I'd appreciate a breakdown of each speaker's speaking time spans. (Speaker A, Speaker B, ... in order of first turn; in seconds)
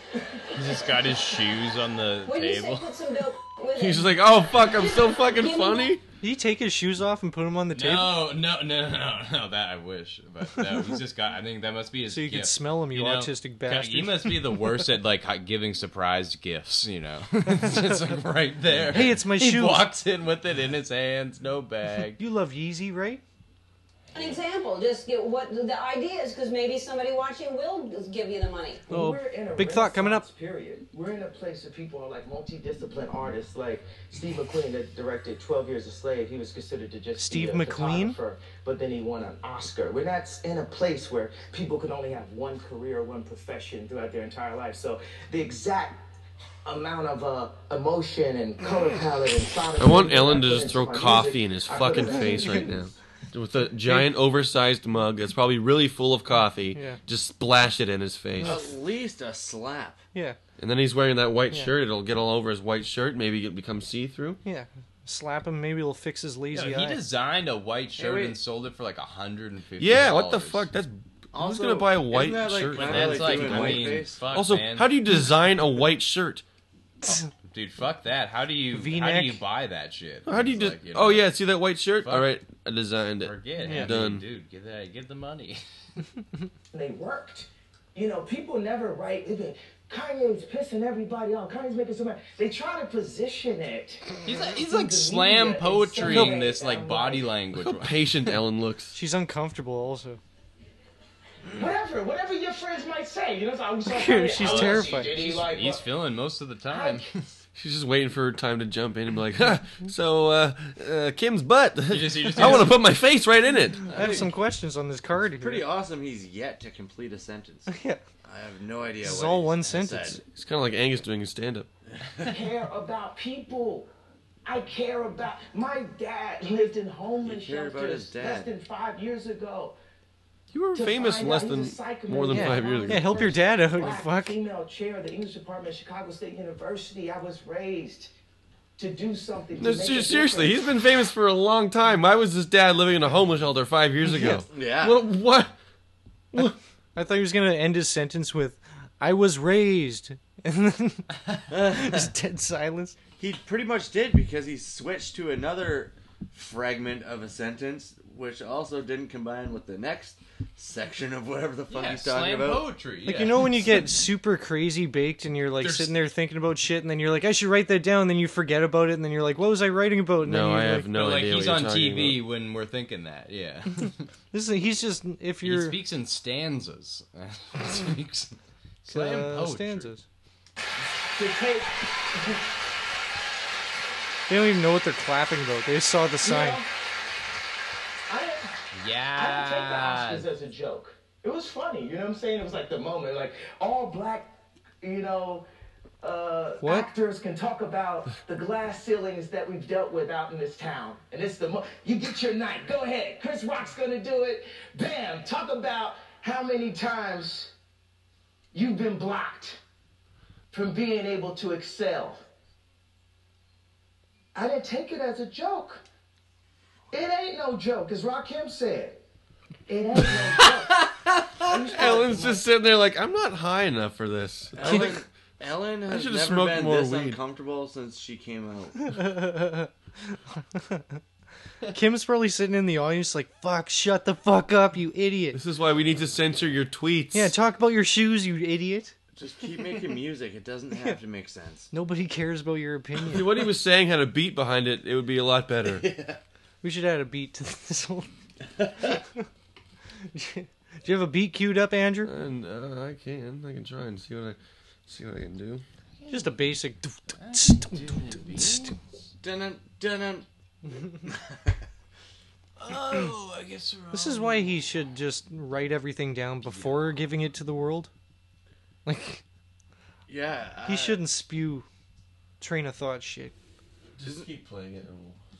Speaker A: 0.5-2.9, 7.7-22.2, 66.5-70.7, 72.7-74.9, 77.5-81.3, 82.0-82.3, 83.2-85.6, 94.2-98.1, 104.4-107.2, 111.9-112.8, 161.7-163.6, 165.6-166.0, 170.9-174.1, 175.4-179.9, 188.7-190.3, 256.0-256.4, 257.2-258.8, 262.6-264.4, 266.5-266.8
Speaker B: 2.3-6.0, 24.1-28.9
Speaker C: 3.8-6.0, 49.8-58.6, 60.6-64.4, 69.8-76.4, 80.3-84.2, 97.5-99.0, 107.6-113.8, 120.2-121.7, 130.5-133.3, 139.6-145.6, 146.3-146.6, 170.2-172.2, 221.5-225.0, 225.9-227.2, 235.3-237.3, 243.1-245.9, 252.0-255.7, 274.0-275.2
Speaker D: 6.2-8.2, 12.1-14.8, 18.9-19.9, 22.2-23.2, 28.9-30.3, 37.2-38.2, 64.5-67.0, 78.7-79.4, 83.6-83.9, 96.0-96.4, 98.9-100.2, 103.9-105.1, 113.9-115.7, 117.7-118.0, 119.0-120.2, 132.3-134.4, 144.1-144.4, 146.9-153.0, 163.1-170.9, 174.3-175.8, 178.9-180.1, 184.3-186.6, 196.6-196.9, 228.9-229.7, 230.5-231.0, 231.7-235.4, 237.1-238.9, 241.7-243.4, 246.6-248.1, 250.1-252.1, 256.1-258.7, 263.9-267.9, 268.9-269.2, 270.6-271.7, 272.4-273.3
Speaker E: 28.9-46.1, 46.6-52.7, 86.7-97.4, 101.5-105.9, 106.7-107.1, 122.2-123.9, 124.5-129.8, 130.7-138.1, 138.8-140.6, 181.1-182.4, 186.2-186.7, 188.1-188.6, 189.2-195.5, 196.0-207.5, 208.5-209.6, 210.5-212.2, 214.3-215.8, 216.9-219.0, 219.7-220.9, 221.4-222.5
Speaker F: 58.4-60.0, 68.0-68.3, 71.3-74.2, 113.9-114.3, 115.4-117.7, 118.2-120.2, 127.2-128.5, 144.5-145.1, 151.5-152.1, 153.2-162.6, 224.6-229.0, 235.9-236.5, 239.2-241.7, 245.7-246.2, 259.2-260.3, 261.0-261.6, 270.1-271.0